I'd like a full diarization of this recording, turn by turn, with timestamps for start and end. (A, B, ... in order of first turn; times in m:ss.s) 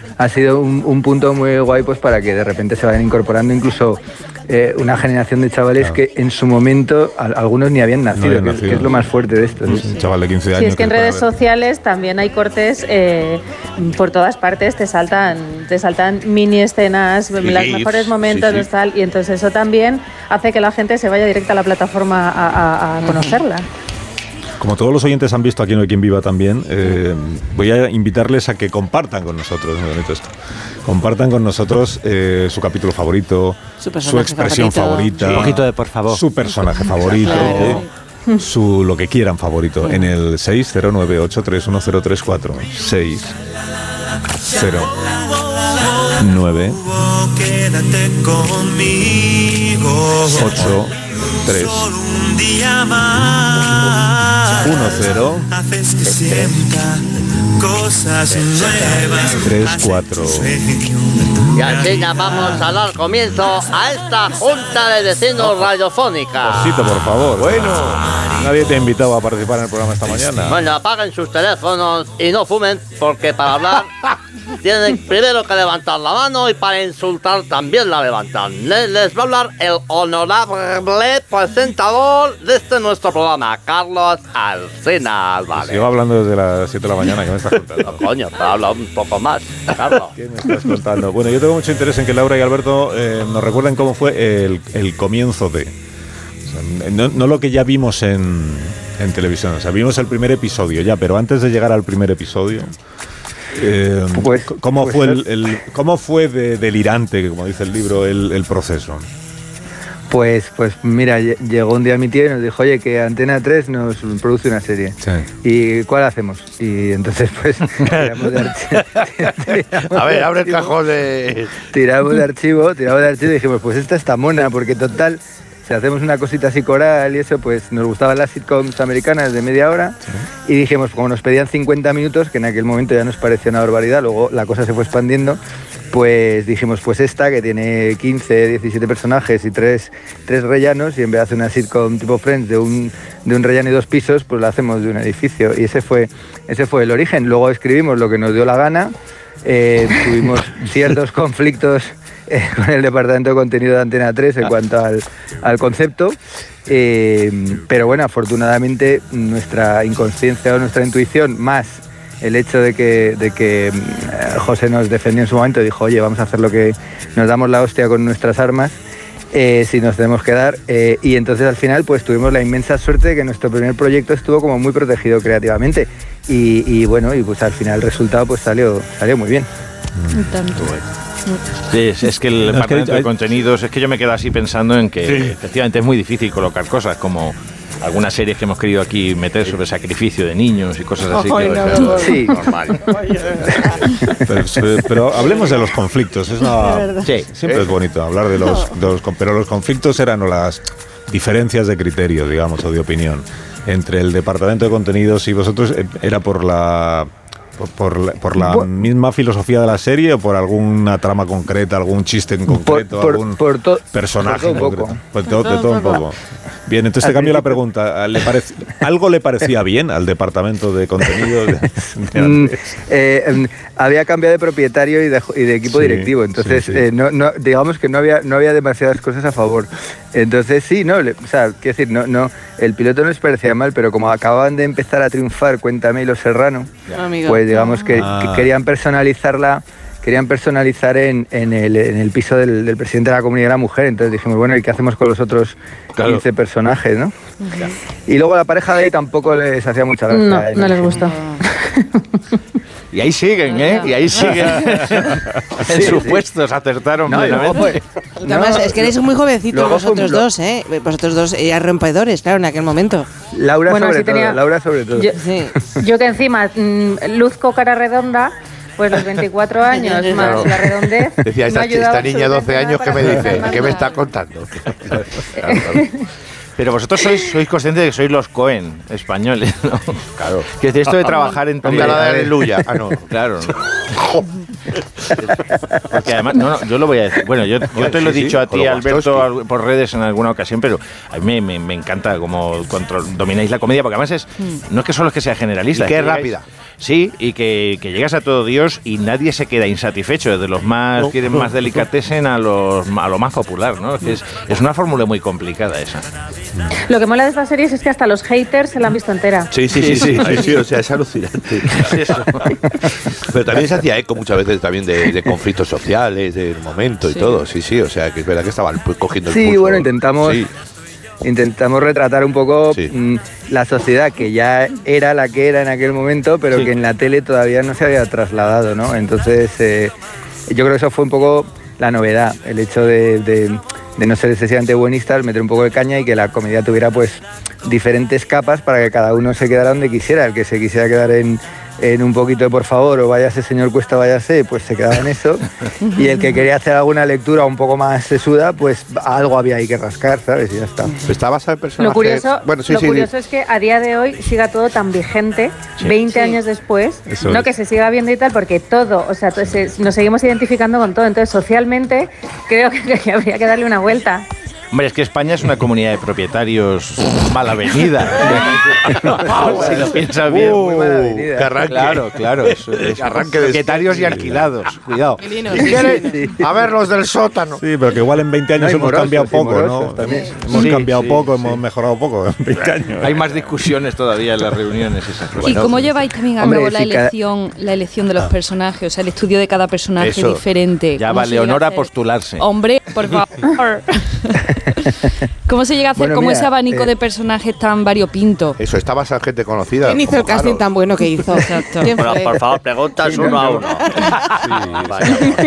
0:00.2-0:09.9 A
0:08.1-0:09.1 B
0:09.6-0:11.3 B
0:10.5-0:23.7 C
0:17.4-0:18.7 D
0:23.0-0:23.4 E
0:24.6-0:30.3 B
0:30.9-0:37.9 B
0:33.8-0:35.4 E
0:35.2-0:36.2 F
0:37.2-0:37.9 E
0:37.4-0:37.8 D
0:38.4-0:43.4 B
0:44.5-0:44.9 B
0:46.2-0:46.8 B
0:46.9-0:50.7 G
0:50.2-0:51.9 B
0:51.8-0:54.7 G
0:54.5-0:55.5 B
0:55.5-0:57.0 G
0:56.1-0:56.6 A
0:57.6-1:02.3 G
0:58.9-1:00.6 B
1:01.6-1:06.8 H
1:06.4-1:10.6 B
1:07.4-1:08.2 D
1:10.5-1:13.9 H
1:14.6-1:25.9 H
1:25.5-1:28.1 B
1:27.8-1:30.1 H
1:30.2-1:35.7 B
1:36.4-1:42.7 B
1:43.5-1:49.1 B
1:44.2-1:45.2 A
1:50.1-2:00.8 A
1:55.0-1:55.3 B
1:59.9-2:01.7 D
2:01.7-2:15.4 A
2:15.9-2:28.9 A
2:29.4-2:48.8 A
2:49.3-2:59.5 A
3:00.1-3:00.7 I
3:01.7-3:12.2 F
3:02.4-3:03.1 B
3:05.0-3:05.4 D
3:11.3-3:12.2 E
3:11.4-3:12.1 D
3:12.0-3:12.4 A
3:12.3-3:12.8 H
3:13.5-3:13.7 A
3:14.2-3:36.2 B
3:17.0-3:17.3 F
3:32.5-3:35.0 A
3:35.3-3:36.0 E
3:36.7-3:42.6 B
3:37.0-3:37.6 A
3:42.1-3:56.7 A
3:45.7-3:46.9 B
3:56.9-3:57.6 E
3:57.2-4:07.1 A
3:57.6-3:57.8 I
3:57.9-3:58.5 B
4:08.1-4:11.1 A
4:10.1-4:12.0 C
4:11.0-4:11.4 E
4:12.9-4:17.8 F
4:15.7-4:16.2 A
4:17.1-4:19.0 A
4:18.2-4:23.1 E
4:19.5-4:20.3 A
4:23.3-4:25.1 A
4:23.7-4:24.4 C
4:25.1-4:25.5 E
4:25.7-4:33.9 C
4:29.7-4:30.5 E
4:30.1-4:30.6 D
4:31.2-4:35.9 D
4:35.4-4:35.9 C
4:36.6-4:42.4 F
4:40.2-4:40.5 D
4:41.6-4:43.1 D
4:43.1-4:43.6 F
4:45.9-5:06.0 F
4:47.7-4:49.3 D
4:55.7-4:56.4 D
5:06.9-5:09.5 C
5:09.5-5:12.3 D
5:09.7-5:10.5 F
5:11.7-5:12.4 F
5:13.2-5:20.5 D
5:19.3-5:20.4 A
5:21.2-5:29.9 A
5:30.5-5:51.0 A
5:46.0-5:46.2 I
5:51.0-5:53.1 D
5:51.8-6:04.3 C
5:56.1-5:56.4 E
5:57.1-5:57.5 B
6:04.7-6:11.0 F
6:09.0-6:11.5 A
6:09.1-6:17.6 D
6:11.6-6:15.2 F
6:14.1-6:14.4 B
6:15.2-6:16.3 E
6:16.1-6:16.4 A
6:17.6-6:23.3 B
6:18.6-6:20.7 A
6:20.5-6:21.6 F
6:23.0-6:25.9 F
6:25.4-6:34.4 I
6:26.4-6:27.1 A
6:30.1-6:30.4 F
6:31.0-6:32.4 F
6:35.5-6:38.6 I
6:36.0-6:36.9 A
6:38.6-6:40.7 D
6:39.8-6:42.6 E
6:41.4-6:41.9 I
6:42.0-6:43.8 H
6:43.1-6:43.4 A
6:43.9-6:44.2 E
6:44.4-6:45.0 B
6:44.9-6:45.3 H